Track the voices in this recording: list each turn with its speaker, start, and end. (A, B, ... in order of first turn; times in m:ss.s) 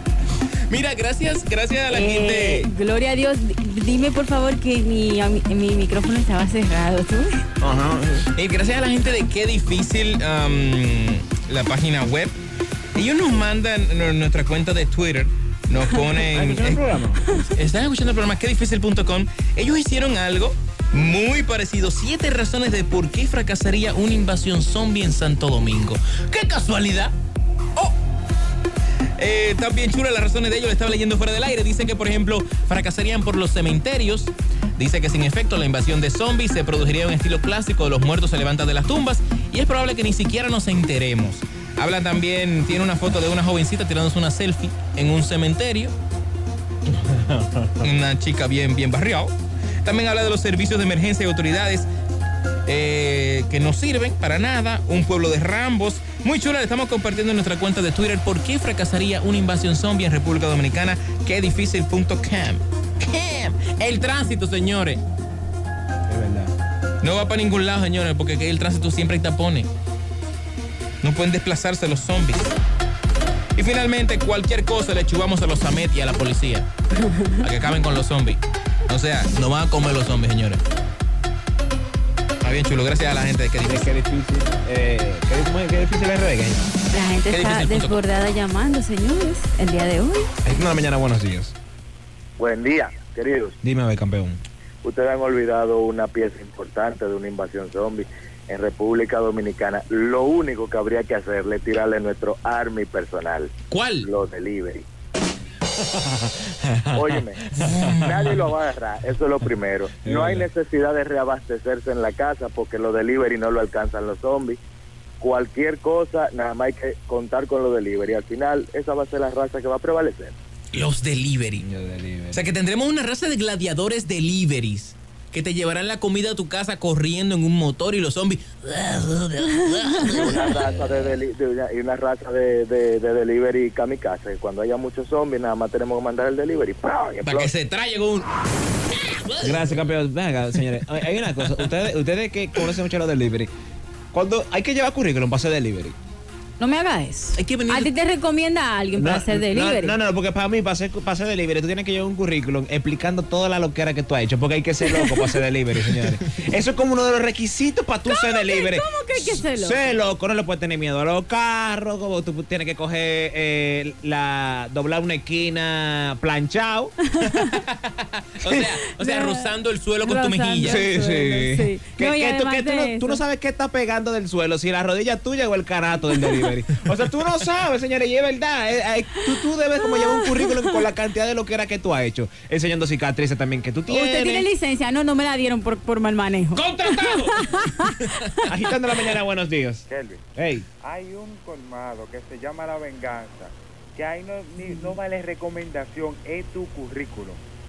0:00.7-0:02.7 A
0:01.9-0:07.4 B
0:07.6-0:08.3 C
0:08.3-0:12.4 A
0:12.9-0:27.1 A
0:16.2-0:17.4 C
0:29.2-0:45.9 A
0:46.9-0:47.9 C
0:47.8-0:51.9 A
0:52.6-1:05.0 A
1:06.1-1:06.5 C
1:07.0-1:09.7 A
1:11.0-1:12.6 A
1:13.6-1:16.7 A
1:17.0-1:17.3 B
1:17.3-1:20.6 A
1:22.4-1:23.9 A
1:23.6-1:26.7 C
1:26.9-1:30.3 B
1:27.3-1:28.0 A
1:30.4-1:31.5 C
1:32.4-1:33.6 D
1:33.6-1:34.4 C
1:34.8-1:44.8 D
1:43.7-1:44.1 A
1:45.8-1:48.1 C
1:46.9-1:54.6 D
1:47.6-1:48.4 A
1:50.0-1:50.5 C
1:55.2-2:00.3 D
2:00.7-2:01.6 A
2:01.6-2:02.4 C
2:02.3-2:10.8 A
2:10.0-2:17.5 D
2:17.2-2:18.3 A
2:18.9-2:19.7 A
2:19.4-2:23.5 C
2:21.3-2:21.7 A
2:24.1-2:26.0 C
2:26.6-2:29.9 B
2:27.4-2:27.9 A
2:29.0-2:46.9 C
2:34.9-2:35.4 B
2:38.1-2:39.9 B
2:47.2-2:47.5 B
2:47.2-2:50.8 A
2:48.4-2:48.7 C
2:49.0-2:53.2 B
2:50.6-3:04.5 C
2:59.8-3:00.8 B
3:03.9-3:08.4 B
3:06.5-3:08.2 A
3:08.5-3:10.6 C
3:09.9-3:10.2 E
3:10.8-3:17.4 E